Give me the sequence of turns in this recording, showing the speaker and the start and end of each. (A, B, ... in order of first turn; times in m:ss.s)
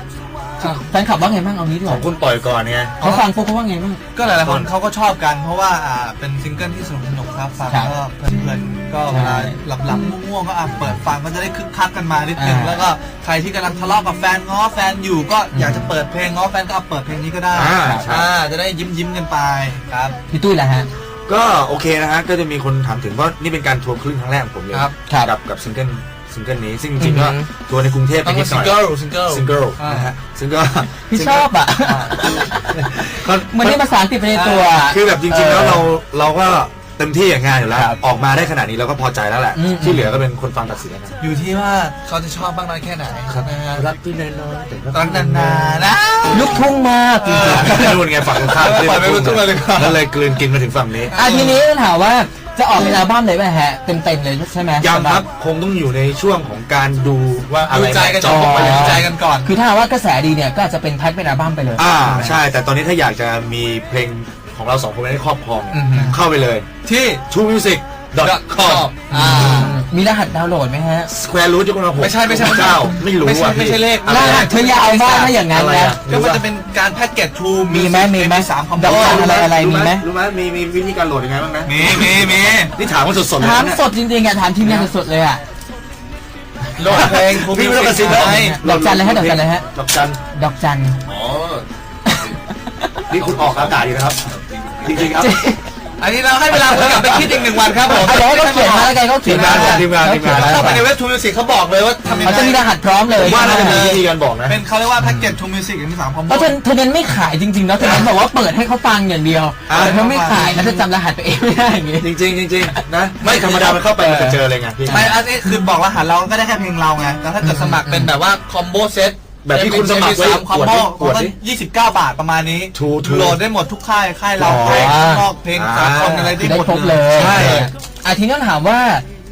0:00.6-0:02.0 A
0:01.8-0:03.0 B
0:03.0-0:03.3 C
0:03.0-0:04.0 A
0:04.1-0:20.2 C
0:04.3-0:04.7 B
0:09.1-0:09.5 A
0:12.4-0:12.8 A
0:15.5-0:15.9 A
0:17.5-0:18.3 B
0:17.8-0:18.1 A
0:20.3-0:20.9 A
0:21.3-0:31.5 B
0:25.1-0:25.3 A
0:27.0-0:27.5 A
0:28.2-0:30.1 C
0:31.1-0:35.8 A
0:31.8-0:32.3 C
0:32.4-0:33.8 B
0:34.3-0:34.8 C
0:34.8-0:41.1 B
0:37.7-0:38.0 A
0:39.5-0:40.2 A
0:41.2-0:43.9 C
0:43.3-0:45.9 B
0:44.9-0:50.0 C
0:46.3-0:47.9 A
0:47.4-0:51.1 B
0:51.1-0:51.6 C
0:51.1-0:55.2 A
0:54.8-0:59.1 B
0:57.7-0:59.5 C
0:58.2-1:02.4 A
1:01.8-1:06.7 B
1:05.7-1:06.2 A
1:05.9-1:06.2 C
1:06.8-1:07.2 C
1:07.3-1:08.9 B
1:08.2-1:09.8 C
1:09.1-1:11.1 A
1:11.1-1:14.5 B
1:12.0-1:15.4 C
1:14.1-1:16.0 A
1:15.3-1:16.4 B
1:16.0-1:19.5 C
1:17.7-1:20.0 A
1:18.8-1:23.8 B
1:21.6-1:22.7 C
1:23.4-1:25.4 A
1:24.6-1:24.9 B
1:26.8-1:28.6 C
1:26.9-1:30.2 B
1:28.0-1:29.7 A
1:30.3-1:31.0 A
1:31.1-1:31.6 B
1:32.0-1:32.4 A
1:33.1-1:34.3 B
1:34.8-1:35.4 B
1:35.0-1:35.6 A
1:36.0-1:46.6 C
1:36.5-1:37.9 B
1:37.9-1:40.8 A
1:39.2-1:40.7 B
1:42.2-1:43.9 A
1:43.2-1:44.6 B
1:45.0-1:45.3 A
1:46.3-1:52.8 A
1:49.7-1:50.0 B
1:49.7-1:50.8 C
1:52.0-1:55.1 B
1:53.2-1:53.8 C
1:53.4-1:55.6 A
1:54.9-2:07.7 C
1:57.4-1:58.1 A
1:59.4-2:01.3 B
2:02.7-2:03.4 B
2:04.4-2:05.2 A
2:04.4-2:05.0 B
2:05.5-2:06.4 B
2:06.4-2:09.0 A
2:07.1-2:07.7 B